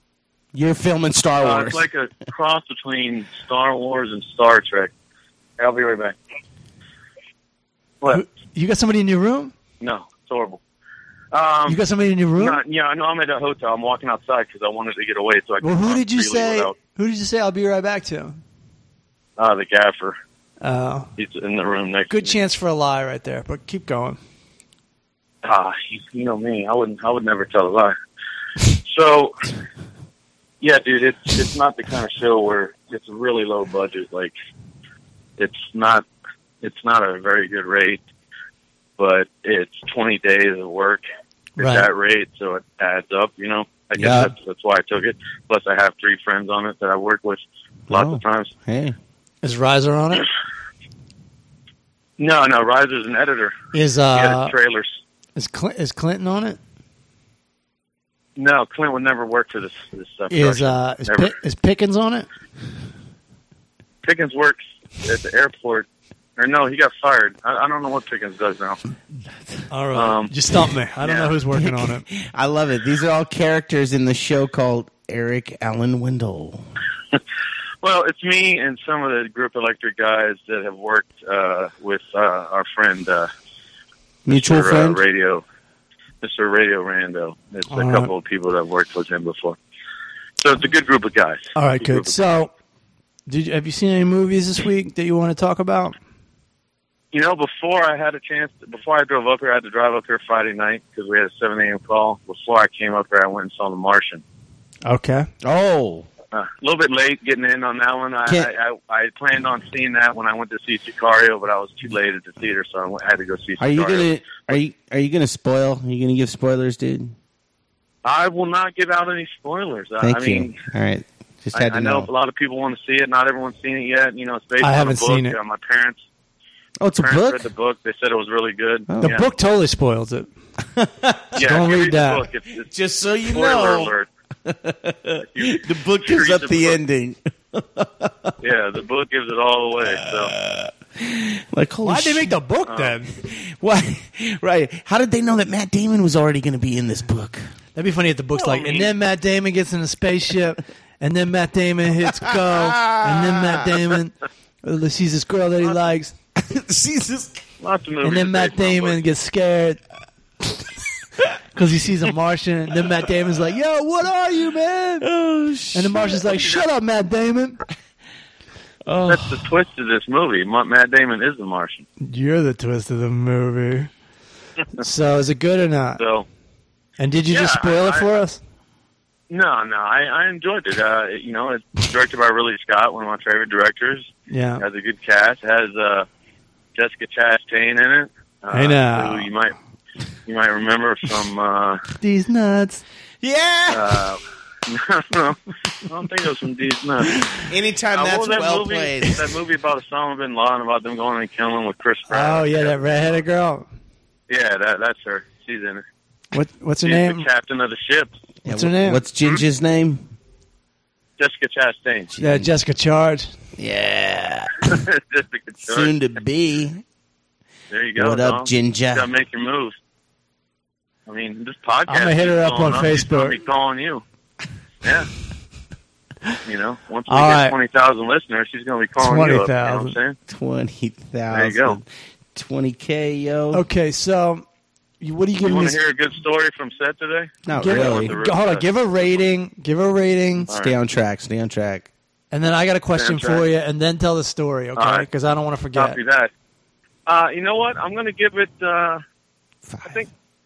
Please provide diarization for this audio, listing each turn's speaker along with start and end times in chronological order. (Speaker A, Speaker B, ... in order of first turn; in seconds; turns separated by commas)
Speaker A: 0.5-1.8, Speaker B: 1.4-4.9, Speaker B: 5.6-6.1, Speaker C: 8.1-9.5, Speaker B: 9.8-10.6, Speaker B: 11.3-11.8, Speaker C: 11.7-12.6, Speaker B: 12.3-16.8, Speaker C: 15.6-18.4, Speaker B: 19.4-20.1, Speaker C: 20.6-21.1, Speaker B: 21.2-22.4, Speaker C: 22.1-24.2, Speaker B: 25.4-27.9, Speaker B: 28.7-29.4, Speaker B: 30.6-34.3, Speaker B: 35.4-36.0, Speaker B: 36.6-38.0, Speaker B: 39.0-41.0, Speaker C: 41.6-41.9, Speaker B: 41.6-48.5, Speaker A: 44.0-44.3, Speaker A: 47.9-48.9, Speaker C: 49.4-50.3, Speaker B: 52.2-53.5, Speaker C: 53.7-54.5, Speaker B: 54.1-54.9, Speaker C: 55.4-56.6, Speaker B: 58.4-61.3, Speaker C: 60.3-62.3, Speaker B: 64.0-68.8, Speaker C: 69.7-72.1, Speaker B: 69.9-70.3, Speaker B: 71.0-71.3, Speaker A: 71.6-76.6, Speaker B: 77.8-83.3, Speaker A: 84.3-85.0, Speaker B: 84.3-85.4, Speaker B: 86.2-89.6, Speaker C: 87.7-88.1, Speaker B: 90.4-92.2, Speaker C: 91.5-92.5, Speaker C: 93.3-95.9, Speaker B: 97.1-104.2, Speaker C: 104.8-105.3, Speaker A: 105.4-106.1, Speaker B: 106.3-114.1, Speaker A: 113.6-117.1, Speaker B: 118.0-120.6, Speaker A: 120.0-122.1, Speaker B: 121.5-126.0, Speaker C: 124.6-125.4, Speaker A: 126.8-127.4, Speaker B: 127.0-129.3, Speaker A: 128.9-129.2, Speaker C: 129.0-130.3, Speaker A: 130.7-131.3, Speaker B: 131.3-132.7, Speaker C: 131.4-132.2, Speaker A: 132.7-133.9, Speaker B: 133.3-134.1, Speaker A: 134.4-138.3, Speaker B: 135.3-136.8, Speaker B: 138.4-140.3, Speaker A: 139.8-142.3, Speaker C: 141.8-143.1, Speaker B: 142.7-143.0, Speaker A: 143.2-147.4, Speaker C: 147.8-154.1, Speaker B: 148.4-148.9, Speaker A: 152.2-153.8, Speaker C: 154.6-156.1, Speaker A: 156.4-157.4, Speaker B: 157.6-159.0, Speaker C: 158.0-159.8, Speaker C: 161.5-165.1, Speaker A: 165.0-166.4, Speaker C: 165.7-167.6, Speaker A: 168.8-169.4, Speaker B: 169.1-171.8, Speaker C: 172.0-173.9, Speaker C: 174.8-176.0, Speaker B: 176.0-176.2, Speaker C: 177.0-178.4, Speaker B: 177.3-178.1, Speaker B: 179.3-186.1, Speaker C: 184.3-184.6, Speaker B: 186.7-189.5, Speaker C: 188.5-189.3, Speaker B: 190.3-191.8, Speaker C: 192.0-192.8, Speaker A: 193.2-194.1, Speaker B: 193.7-197.2, Speaker A: 197.4-199.3, Speaker B: 197.9-203.2, Speaker C: 202.1-203.7, Speaker B: 204.3-205.8, Speaker C: 206.3-207.3, Speaker B: 206.8-208.1, Speaker A: 208.4-210.1, Speaker C: 208.4-209.0, Speaker B: 211.2-212.1, Speaker A: 212.1-212.5, Speaker C: 212.2-213.3, Speaker A: 213.6-214.8, Speaker B: 214.7-215.9, Speaker A: 215.7-216.8, Speaker B: 217.7-219.7, Speaker A: 218.0-219.1, Speaker B: 221.1-224.0, Speaker C: 221.9-223.4, Speaker B: 224.8-225.1, Speaker B: 226.4-230.2, Speaker C: 227.1-227.5, Speaker C: 229.0-229.9, Speaker A: 230.3-233.6, Speaker B: 231.3-231.8, Speaker C: 233.5-234.4, Speaker C: 235.0-235.8, Speaker B: 235.4-238.6, Speaker A: 237.4-238.1, Speaker C: 237.5-240.5, Speaker B: 240.5-240.7, Speaker A: 240.5-241.9, Speaker C: 242.3-246.0, Speaker B: 243.0-243.4, Speaker B: 244.8-245.1, Speaker B: 245.7-246.3, Speaker B: 247.1-249.0, Speaker A: 249.7-250.0